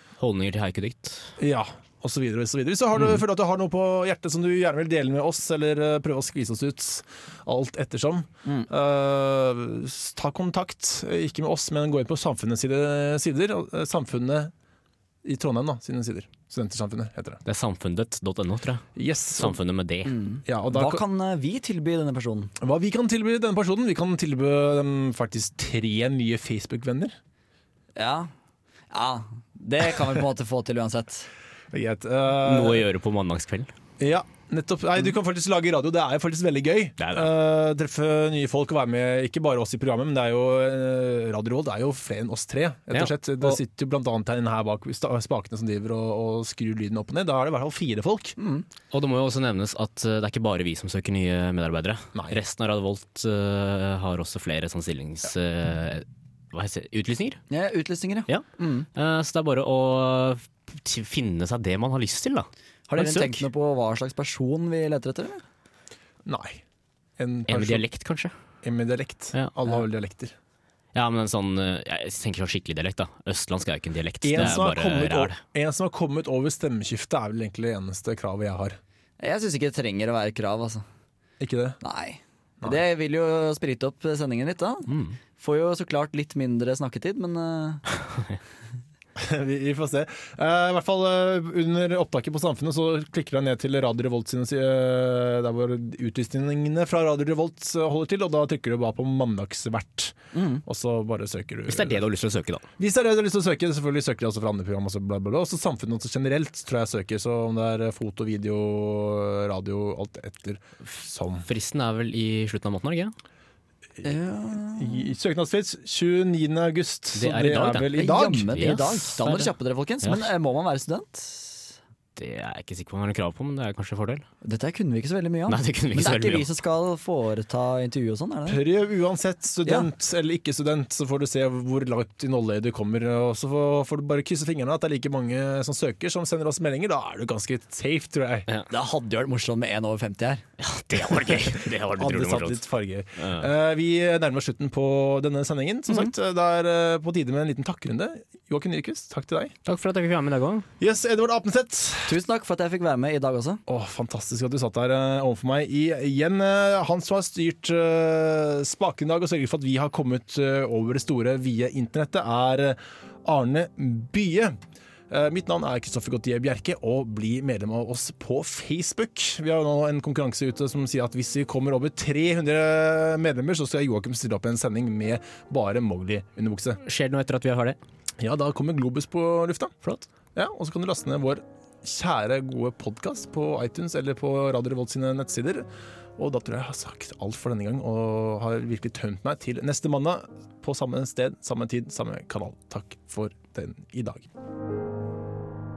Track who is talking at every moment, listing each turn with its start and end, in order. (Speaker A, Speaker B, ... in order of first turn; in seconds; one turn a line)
Speaker A: 0.2-1.3
Speaker B: 1.4-14.5
Speaker B: 15.2-17.4
Speaker A: 17.4-20.1
Speaker B: 18.9-19.6
Speaker C: 20.1-22.5
Speaker B: 20.4-21.0
Speaker B: 22.6-27.2
Speaker C: 27.9-28.3
Speaker C: 28.9-31.3
Speaker B: 31.7-32.8
Speaker A: 32.4-33.7
Speaker B: 34.0-48.4
Speaker A: 37.0-37.3
Speaker A: 42.9-43.6
Speaker C: 48.4-48.6
Speaker A: 48.9-57.4
Speaker C: 57.5-58.9
Speaker A: 58.3-63.5
Speaker C: 62.9-65.4
Speaker B: 66.2-66.6
Speaker B: 67.2-67.8
Speaker A: 67.5-68.3
Speaker B: 68.6-70.3
Speaker A: 70.9-75.4
Speaker B: 74.2-78.8
Speaker C: 79.2-80.8
Speaker B: 81.4-81.8
Speaker C: 81.8-87.8
Speaker A: 84.9-85.2
Speaker B: 89.2-102.0
Speaker C: 100.3-100.6
Speaker A: 101.7-102.6
Speaker B: 102.8-111.5
Speaker A: 111.5-113.1
Speaker B: 114.0-118.8
Speaker C: 114.0-115.1
Speaker A: 117.1-119.5
Speaker C: 117.7-121.7
Speaker A: 120.0-120.3
Speaker A: 122.2-124.2
Speaker C: 124.4-128.6
Speaker A: 125.5-126.5
Speaker B: 128.5-138.5
Speaker C: 138.7-140.4
Speaker A: 140.6-142.6
Speaker B: 141.9-149.5
Speaker A: 143.2-143.5
Speaker A: 149.7-150.7
Speaker B: 150.8-152.2
Speaker C: 152.1-153.6
Speaker B: 153.7-164.6
Speaker B: 165.1-176.8
Speaker A: 176.8-177.8
Speaker B: 178.2-179.7
Speaker B: 180.3-185.7
Speaker B: 186.2-194.3